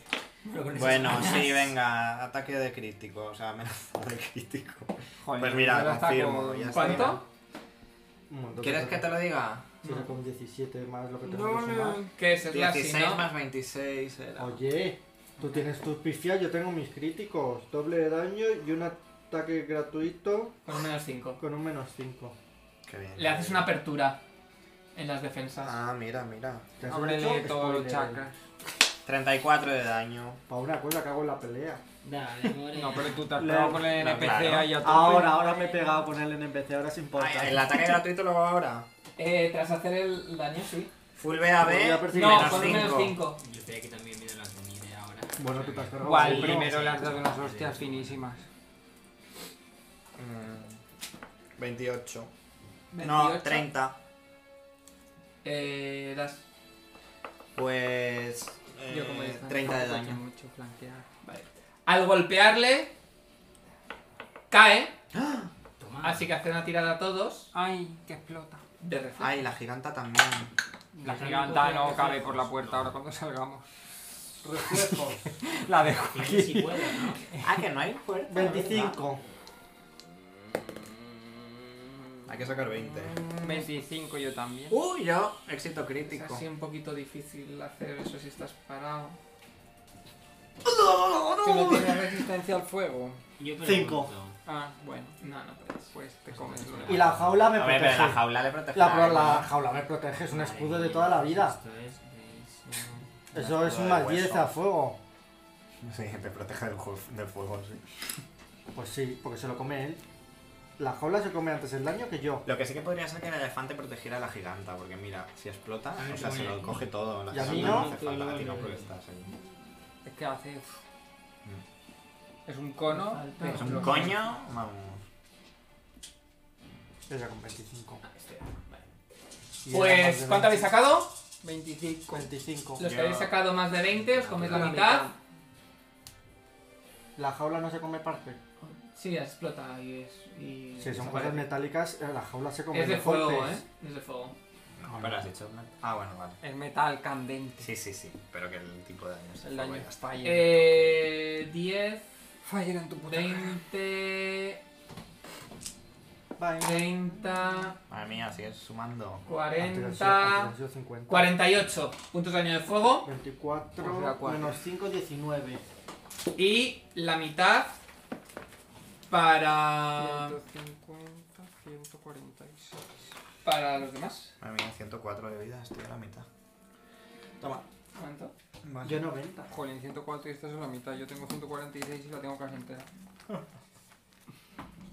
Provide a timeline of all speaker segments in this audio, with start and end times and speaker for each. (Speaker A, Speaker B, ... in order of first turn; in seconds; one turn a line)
Speaker A: 0.4-1.7
Speaker B: 0.7-7.2
Speaker C: 5.2-7.2
Speaker D: 6.7-7.2
Speaker E: 6.8-7.2
Speaker E: 8.3-9.1
Speaker B: 8.6-9.8
Speaker E: 9.8-12.0
Speaker C: 11.2-12.1
Speaker D: 12.1-13.3
Speaker B: 12.5-14.6
Speaker E: 14.4-20.6
Speaker D: 20.7-21.4
Speaker E: 21.4-22.4
Speaker B: 22.9-23.7
Speaker D: 23.2-24.2
Speaker D: 25.0-25.8
Speaker B: 25.6-26.7
Speaker E: 26.8-28.2
Speaker C: 26.9-28.4
Speaker B: 29.1-30.4
Speaker E: 30.5-31.8
Speaker A: 32.0-33.3
Speaker C: 32.7-35.5
Speaker E: 33.4-38.0
Speaker B: 33.9-34.8
Speaker D: 35.0-36.0
Speaker B: 37.2-38.9
Speaker D: 39.2-40.9
Speaker B: 41.2-43.2
Speaker E: 41.6-43.0
Speaker D: 42.1-43.4
Speaker A: 43.3-48.2
Speaker E: 45.4-46.7
Speaker C: 46.0-48.5
Speaker B: 50.2-50.8
Speaker B: 51.6-52.3
Speaker D: 52.9-53.7
Speaker B: 53.0-54.0
Speaker D: 55.4-56.4
Speaker B: 57.5-60.2
Speaker C: 58.9-61.1
Speaker D: 61.2-62.9
Speaker D: 64.5-64.9
Speaker B: 65.1-65.5
Speaker A: 65.8-66.3
Speaker D: 66.0-67.5
Speaker C: 67.5-68.6
Speaker D: 68.8-69.4
Speaker B: 69.2-70.5
Speaker C: 71.0-73.7
Speaker A: 71.0-72.9
Speaker E: 74.4-75.3
Speaker C: 74.7-77.6
Speaker A: 76.1-77.2
Speaker B: 77.4-79.0
Speaker E: 78.3-79.2
Speaker B: 82.3-83.3
Speaker C: 83.3-84.8
Speaker B: 84.7-86.5
Speaker D: 86.1-89.2
Speaker E: 90.7-92.2
Speaker C: 91.4-93.2
Speaker A: 93.4-94.3
Speaker E: 93.6-94.1
Speaker C: 94.5-95.2
Speaker D: 95.2-95.9
Speaker C: 95.9-97.1
Speaker A: 96.3-97.5
Speaker E: 96.9-101.6
Speaker B: 97.4-99.5
Speaker A: 100.2-103.0
Speaker C: 102.7-103.0
Speaker E: 103.3-105.0
Speaker B: 103.3-104.5
Speaker B: 105.8-107.8
Speaker E: 108.7-110.0
Speaker E: 110.8-112.5
Speaker B: 112.5-119.3
Speaker A: 116.0-118.9
Speaker E: 117.3-117.9
Speaker C: 120.0-120.8
Speaker C: 122.5-124.1
Speaker D: 122.9-124.1
Speaker B: 123.5-125.0
Speaker E: 127.1-128.0
Speaker D: 128.0-128.9
Speaker E: 129.7-130.7
Speaker D: 129.7-131.2
Speaker C: 131.4-132.3
Speaker E: 132.1-132.8
Speaker D: 132.8-135.1
Speaker B: 132.8-133.4
Speaker B: 133.9-134.7
Speaker C: 134.4-135.2
Speaker E: 137.2-138.4
Speaker D: 138.6-141.5
Speaker E: 140.8-143.6
Speaker D: 142.7-144.4
Speaker B: 144.8-146.4
Speaker E: 144.9-145.2
Speaker C: 146.4-147.7
Speaker B: 147.6-151.0
Speaker C: 149.4-150.6
Speaker D: 150.2-152.1
Speaker C: 152.4-153.6
Speaker D: 153.1-154.6
Speaker E: 156.4-157.5
Speaker D: 156.6-157.8
Speaker B: 157.9-159.2
Speaker D: 159.3-160.5
Speaker E: 159.6-161.4
Speaker D: 161.1-163.1
Speaker E: 163.1-165.6
Speaker C: 163.8-164.6
Speaker D: 166.4-167.8
Speaker D: 169.1-170.4
Speaker C: 170.0-172.8
Speaker D: 173.4-174.3
Speaker B: 174.4-176.3
Speaker D: 177.9-178.3
Speaker B: 178.6-179.1
Speaker E: 178.8-179.5
Speaker C: 179.5-182.9